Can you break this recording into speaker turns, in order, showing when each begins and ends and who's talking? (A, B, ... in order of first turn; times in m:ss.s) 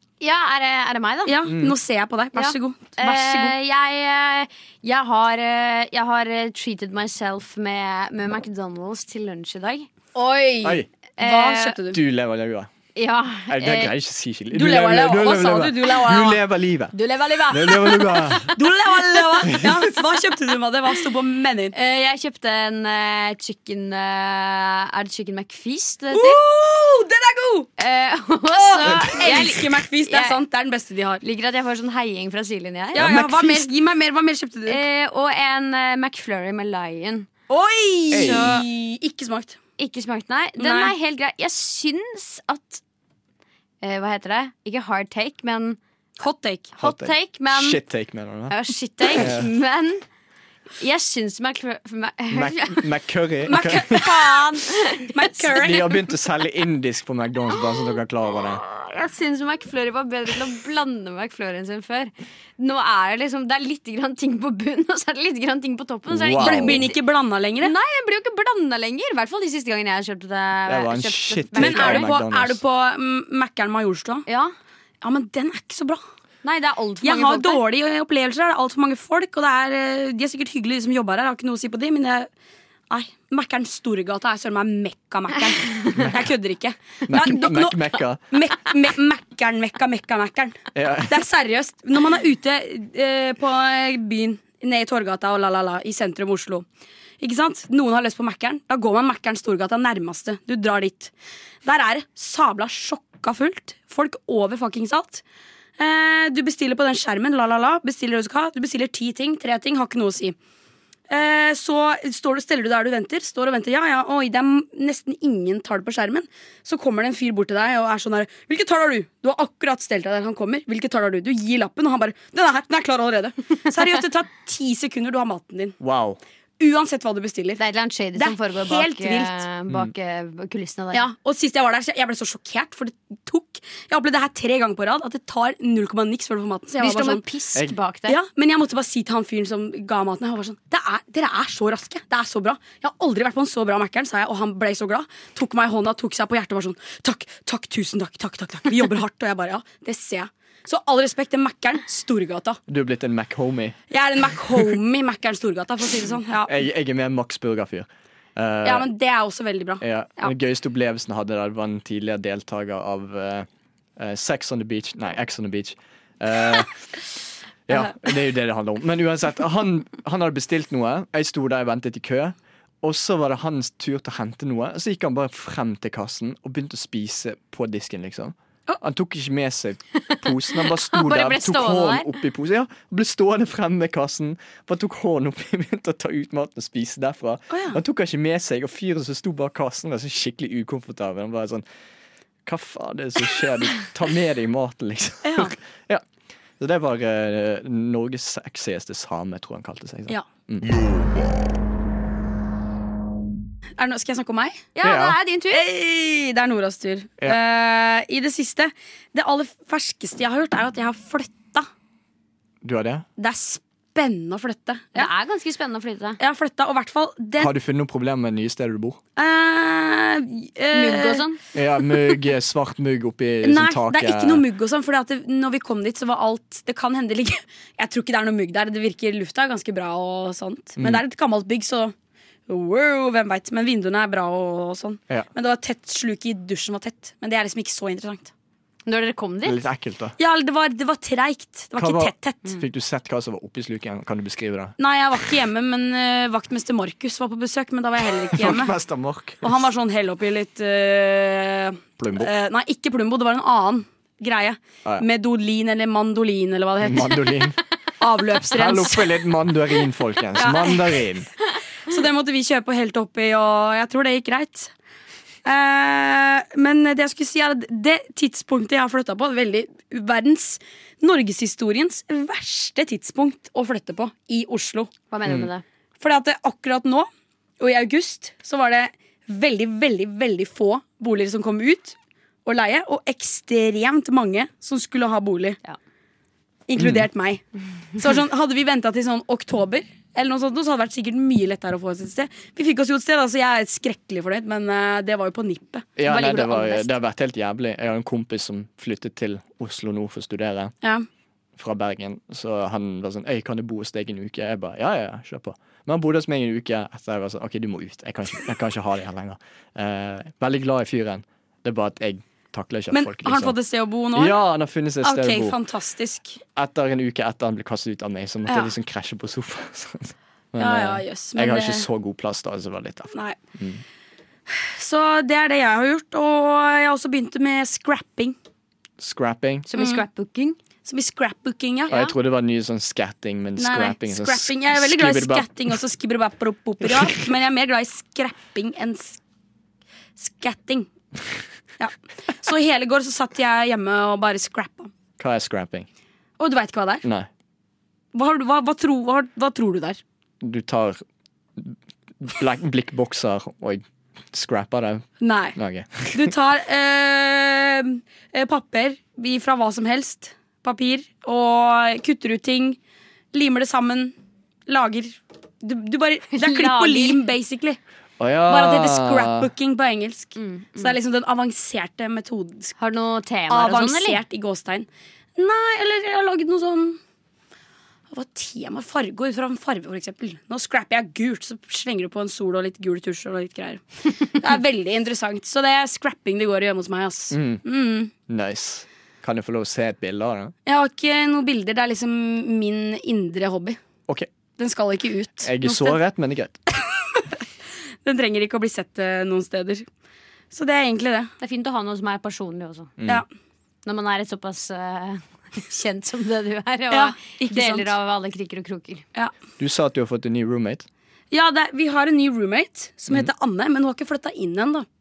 0:00.2-0:01.4 A
0:01.2-0:03.5 B
0:01.5-0:01.7 C
0:02.3-0:09.9 A
0:10.1-0:12.0 B
0:11.2-0:11.8 A
0:11.9-0:12.7 C
0:12.9-0:13.9 A
0:13.5-0:16.9 C
0:14.5-0:16.4 B
0:16.9-0:18.4 A
0:17.5-0:18.5 C
0:18.4-0:21.7 B
0:19.5-0:19.8 C
0:21.7-0:26.4 A
0:26.1-0:27.7 B
0:27.8-0:30.4 A
0:28.5-0:31.2 B
0:28.8-0:29.5 C
0:31.2-0:33.1 A
0:32.9-0:34.8 B
0:33.0-0:33.7 C
0:34.7-0:37.3 A
0:37.5-0:39.6 B
0:38.1-0:38.6 C
0:38.2-0:38.5 A
0:39.8-0:42.8 A
0:40.6-0:40.9 B
0:43.8-0:45.8 A
0:46.2-0:46.7 B
0:46.8-0:47.8 A
0:46.8-0:48.5 C
0:48.5-0:50.0 A
0:49.1-0:49.5 C
0:50.8-0:52.9 A
0:52.3-0:54.1 C
0:53.5-0:54.4 B
0:53.5-0:55.4 A
0:55.1-0:56.0 B
0:55.5-0:58.6 C
0:58.6-1:07.0 A
1:06.1-1:06.9 C
1:06.4-1:07.7 B
1:07.6-1:12.1 A
1:10.7-1:12.6 C
1:11.6-1:14.2 B
1:14.2-1:14.5 A
1:15.0-1:16.0 B
1:16.4-1:17.6 A
1:17.0-1:22.3 B
1:22.9-1:36.6 B
1:26.0-1:26.3 C
1:27.1-1:28.3 C
1:30.7-1:31.2 C
1:37.2-1:41.1 B
1:41.6-1:45.2 B
1:45.8-1:50.4 B
1:51.1-2:05.8 B
2:05.8-2:06.2 C
2:06.6-2:07.6 B
2:07.6-2:11.0 A
2:08.2-2:09.4 B
2:10.9-2:17.2 B
2:16.8-2:18.2 A
2:18.1-2:32.6 B
2:32.7-2:33.8 C
2:33.9-2:36.6 B
2:36.4-2:38.9 C
2:38.6-2:40.3 B
2:39.8-2:46.7 C
2:47.7-3:11.6 C
3:00.0-3:02.1 A
3:07.5-3:07.8 B
3:12.4-3:16.0 C
3:15.2-3:15.5 B
3:16.6-3:20.9 C
3:23.8-3:24.7 B
3:24.8-3:25.6 A
3:24.8-3:25.2 C
3:25.5-3:31.7 B
3:32.6-3:33.0 C
3:33.2-3:35.1 B
3:34.9-3:36.2 A
3:36.2-3:37.5 B
3:37.4-3:39.0 C
3:39.2-3:41.2 B
3:40.7-3:41.4 A
3:41.5-3:44.4 C
3:43.4-3:51.9 B
3:52.5-3:58.3 B
3:58.8-3:59.6 A
3:59.4-4:00.2 C
4:00.2-4:02.6 B
4:01.8-4:04.8 C
4:04.8-4:08.7 B
4:08.3-4:09.6 C
4:09.4-4:17.4 B
4:12.0-4:12.3 C
4:16.8-4:17.6 C
4:18.0-4:19.2 B
4:18.5-4:21.3 C
4:20.4-4:21.0 B
4:21.8-4:24.7 B
4:25.4-4:34.9 B
4:35.1-4:35.6 A
4:36.0-4:37.1 B
4:37.6-4:45.6 B
4:46.7-4:56.0 B
4:46.8-4:47.0 C
4:56.0-5:00.7 C
4:56.0-4:56.9 A
5:01.6-5:13.6 C
5:12.9-5:14.4 B
5:14.1-5:15.6 C
5:15.0-5:16.4 B
5:16.6-5:23.8 C
5:18.5-5:18.7 B
5:20.6-5:21.8 B
5:24.5-5:28.4 B
5:29.0-5:29.7 C
5:29.7-5:30.6 A
5:29.8-5:30.0 B
5:30.8-5:32.1 B
5:31.9-5:35.6 C
5:33.6-5:39.2 B
5:36.9-5:37.2 C
5:40.2-5:40.9 B
5:41.8-5:44.9 B
5:45.2-5:45.9 C
5:46.4-5:47.1 B
5:47.0-5:47.3 C
5:48.1-5:50.0 B
5:50.4-5:51.0 C
5:51.6-5:56.3 C
5:55.2-5:55.6 B
5:56.1-6:02.8 B
6:03.3-6:04.1 B
6:04.7-6:07.8 B
6:06.3-6:07.2 A
6:08.2-6:09.5 C
6:08.5-6:12.8 B
6:10.4-6:11.0 A
6:12.8-6:14.2 A
6:13.5-6:17.0 B
6:18.1-6:28.1 B
6:27.3-6:27.6 C
6:28.3-6:30.5 C
6:30.6-6:33.8 B
6:34.6-6:36.0 B
6:35.4-6:36.6 C
6:38.0-6:39.8 B
6:40.5-6:41.3 B
6:41.4-6:42.9 A
6:43.0-6:43.2 C
6:43.8-6:49.0 A
6:46.9-6:47.9 B
6:49.6-6:50.9 C
6:51.3-6:54.8 B